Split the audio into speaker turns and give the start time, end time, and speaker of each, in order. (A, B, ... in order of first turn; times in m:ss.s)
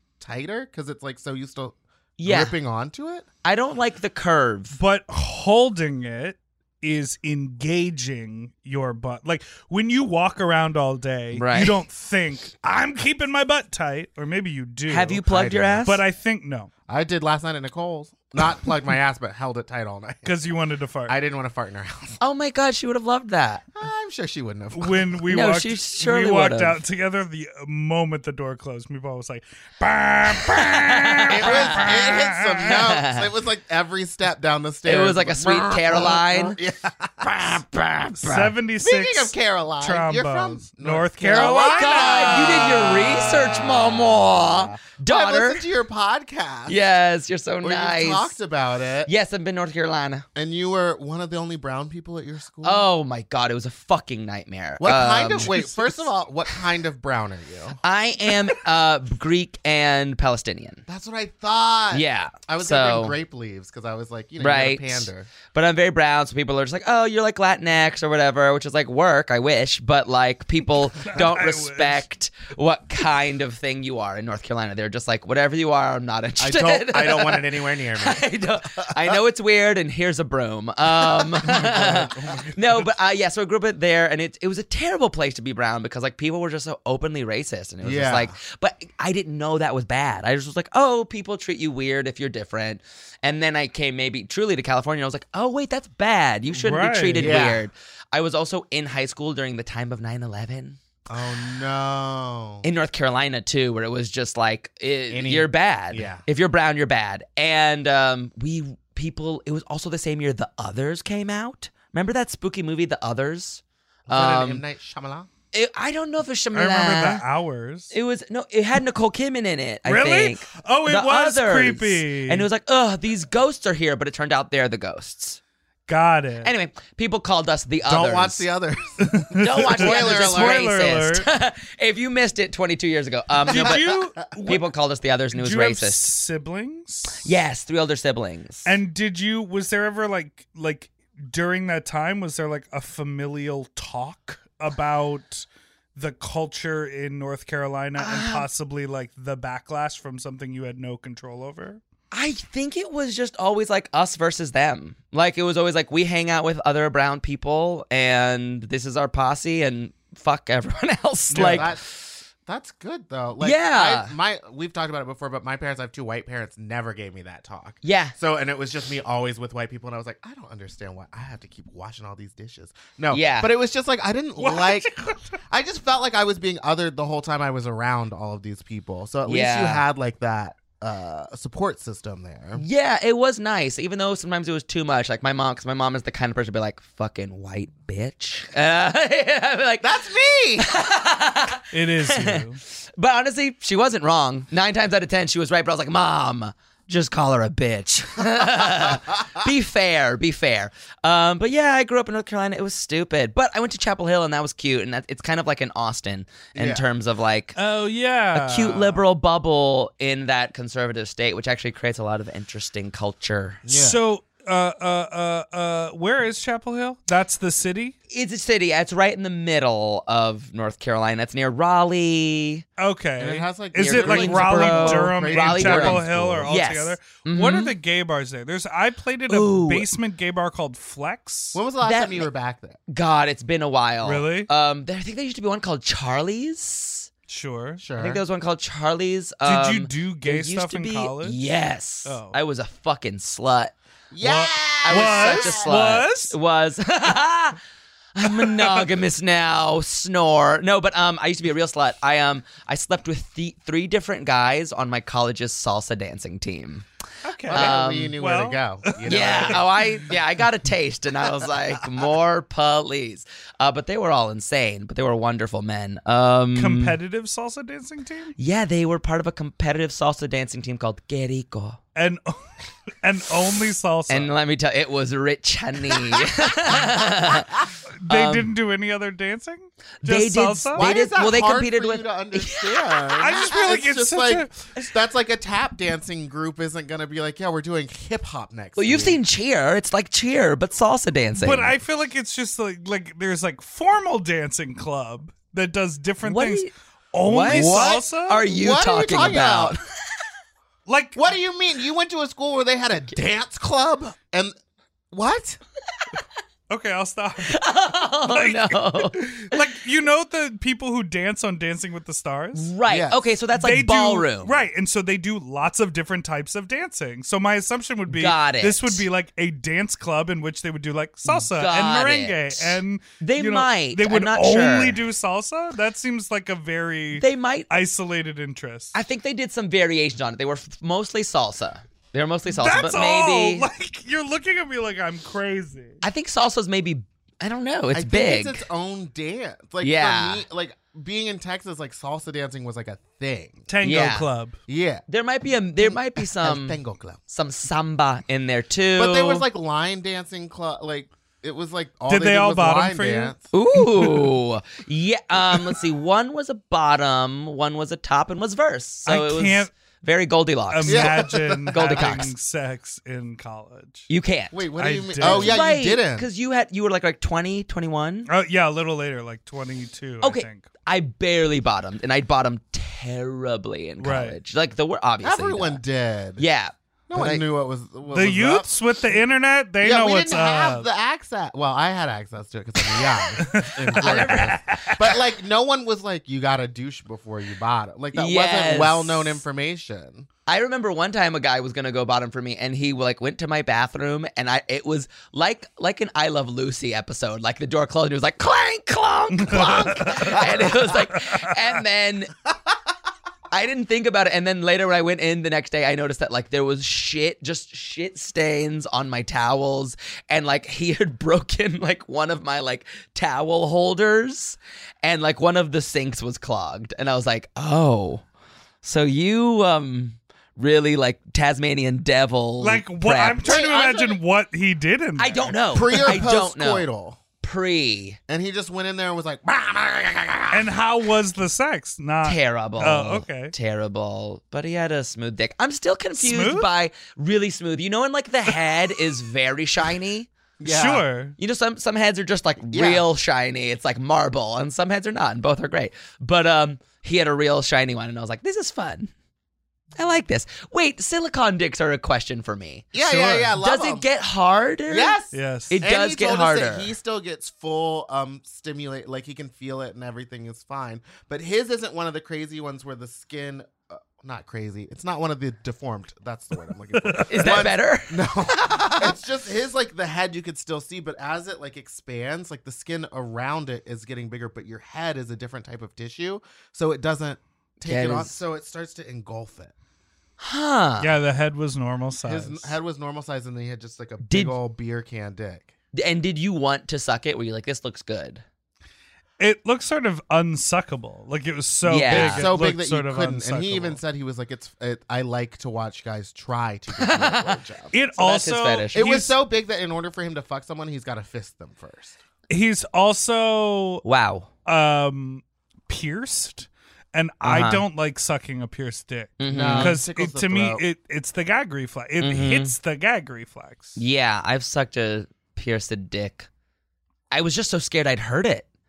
0:00.2-0:03.3 A
0:02.2-0:02.6 B
0:03.4-0:04.8 B
0:04.8-0:15.2 C
0:11.3-0:11.8 B
0:14.9-0:16.0 B
0:15.3-0:15.9 A
0:15.8-0:16.7 C
0:16.9-0:20.3 A
0:20.2-0:21.2 C
0:21.1-0:22.2 A
0:22.2-0:23.6 B
0:23.8-0:25.2 A
0:24.7-0:32.8 C
0:25.3-0:26.8 B
0:30.5-0:32.0 B
0:31.3-0:46.8 A
0:32.7-0:33.3 B
0:34.9-0:36.6 B
0:37.4-0:38.5 B
0:38.2-0:42.9 C
0:41.3-0:45.6 B
0:46.7-0:48.3 B
0:47.6-0:49.1 A
0:49.1-0:50.3 B
0:50.4-0:52.8 A
0:52.6-0:56.0 B
0:54.8-0:57.8 A
0:57.8-1:00.8 B
1:00.9-1:05.3 A
1:01.9-1:03.2 B
1:04.4-1:40.8 B
1:11.0-1:12.0 C
1:16.4-1:19.2 A
1:20.9-1:22.5 A
1:27.8-1:28.4 A
1:36.5-1:37.5 C
1:37.2-1:37.7 A
1:41.1-1:42.7 A
1:42.6-1:54.6 B
1:45.1-1:46.3 A
1:54.1-1:55.3 A
1:55.5-1:57.2 B
1:56.5-1:57.9 C
1:57.9-2:05.4 B
1:59.8-2:02.5 C
2:05.9-2:06.5 C
2:06.4-2:08.5 B
2:07.8-2:10.6 A
2:09.1-2:11.3 C
2:09.4-2:16.2 B
2:13.5-2:14.0 A
2:13.5-2:14.7 C
2:15.4-2:17.3 C
2:17.2-2:18.8 B
2:18.6-2:31.8 C
2:28.0-2:28.5 B
2:32.1-2:42.0 B
2:41.3-2:41.7 C
2:41.3-2:41.8 A
2:42.4-2:54.9 A
2:43.4-2:44.1 B
2:47.8-2:48.1 B
2:53.1-2:53.5 B
2:54.4-2:55.3 C
2:55.5-3:02.6 A
2:59.3-2:59.9 B
3:02.6-3:09.9 B
3:09.8-3:10.7 A
3:10.6-3:27.6 B
3:11.7-3:12.6 C
3:26.6-3:26.8 A
3:27.6-3:29.0 C
3:28.3-3:33.6 B
3:33.6-3:34.0 A
3:33.7-3:38.0 C
3:38.1-3:42.6 B
3:42.8-3:51.6 C
3:43.2-3:46.5 A
3:43.8-3:47.7 B
3:49.3-3:49.9 B
3:51.5-3:52.8 A
3:51.8-3:52.3 B
3:52.9-3:57.1 B
3:54.0-3:54.5 C
3:57.3-3:57.8 C
3:57.8-3:58.2 A
3:58.0-4:03.7 B
3:59.4-4:01.4 C
4:02.0-4:02.4 C
4:04.1-4:05.8 A
4:04.2-4:06.4 C
4:04.8-4:07.6 B
4:08.2-4:16.9 B
4:08.3-4:08.8 C
4:17.2-4:19.9 C
4:17.5-4:19.7 A
4:17.5-4:18.1 B
4:19.0-4:27.0 B
4:26.6-4:28.4 C
4:28.4-4:31.8 B
4:32.0-4:32.4 C
4:33.0-4:34.3 C
4:34.1-4:38.5 B
4:38.0-4:40.9 C
4:40.0-4:43.4 B
4:40.8-4:49.2 A
4:43.2-4:44.6 C
4:48.8-4:51.7 B
4:51.4-4:58.4 C
4:56.2-4:56.7 B
4:57.2-4:59.8 B
4:57.5-4:59.8 A
5:00.9-5:01.2 C
5:01.2-5:04.6 A
5:05.1-5:05.6 A
5:06.7-5:07.6 C
5:07.5-5:09.6 B
5:08.3-5:12.7 C
5:12.5-5:14.5 B
5:12.9-5:13.2 A
5:13.5-5:29.0 C
5:18.1-5:19.0 B
5:21.3-5:25.0 B
5:27.1-5:27.7 B
5:28.9-5:33.7 B
5:32.5-5:36.0 C
5:36.0-5:38.6 B
5:37.9-5:43.7 A
5:39.8-5:40.4 B
5:43.7-5:44.6 C
5:43.8-5:44.3 B
5:44.7-5:45.0 A
5:45.1-5:49.5 B
5:45.8-5:47.2 A
5:49.0-5:53.4 A
5:52.1-5:53.4 C
5:53.5-6:02.3 B
5:53.9-5:54.3 C
5:59.1-5:59.7 C
6:00.7-6:04.1 C
6:00.8-6:02.2 A
6:04.1-6:04.6 B
6:04.5-6:06.3 A
6:04.8-6:05.6 C
6:05.2-6:08.3 B
6:08.3-6:10.7 C
6:10.2-6:15.8 B
6:14.0-6:14.4 C
6:15.2-6:16.4 A
6:16.4-6:17.4 B
6:17.1-6:18.7 A
6:18.1-6:20.9 C
6:19.8-6:30.3 A
6:22.9-6:25.2 C
6:23.9-6:24.9 B
6:28.1-6:29.4 B
6:30.5-6:42.3 B
6:39.4-6:41.5 C
6:43.5-6:58.2 B
6:58.8-7:03.4 B
7:02.6-7:06.0 C
7:03.4-7:04.2 A
7:05.2-7:06.9 B
7:05.7-7:07.2 A
7:07.4-7:08.2 B
7:08.3-7:10.8 A
7:10.5-7:13.5 C
7:12.2-7:20.3 B
7:16.2-7:16.7 C
7:20.6-7:21.1 A
7:20.6-7:21.4 C
7:21.4-7:29.1 B
7:22.7-7:23.0 A
7:30.0-7:35.2 B
7:32.9-7:34.1 A
7:34.9-7:59.7 A
7:35.3-7:35.8 C
7:35.7-7:36.9 B
7:46.9-7:47.7 C
7:47.3-7:48.3 B
7:57.8-7:58.4 B
8:00.4-8:01.1 B
8:01.0-8:02.8 C
8:02.2-8:05.7 A
8:04.2-8:04.6 B
8:05.9-8:08.4 B
8:09.4-8:14.0 C
8:11.9-8:12.5 B
8:12.1-8:17.9 A
8:17.0-8:17.6 B
8:17.9-8:19.4 C
8:18.2-8:19.1 B
8:19.0-8:22.2 A
8:22.5-8:24.0 C
8:24.0-8:24.5 B
8:24.6-8:34.0 C
8:27.4-8:27.8 B
8:29.4-8:30.0 B
8:29.5-8:30.8 A
8:32.2-8:32.7 B
8:34.0-8:36.5 B
8:37.3-8:38.7 B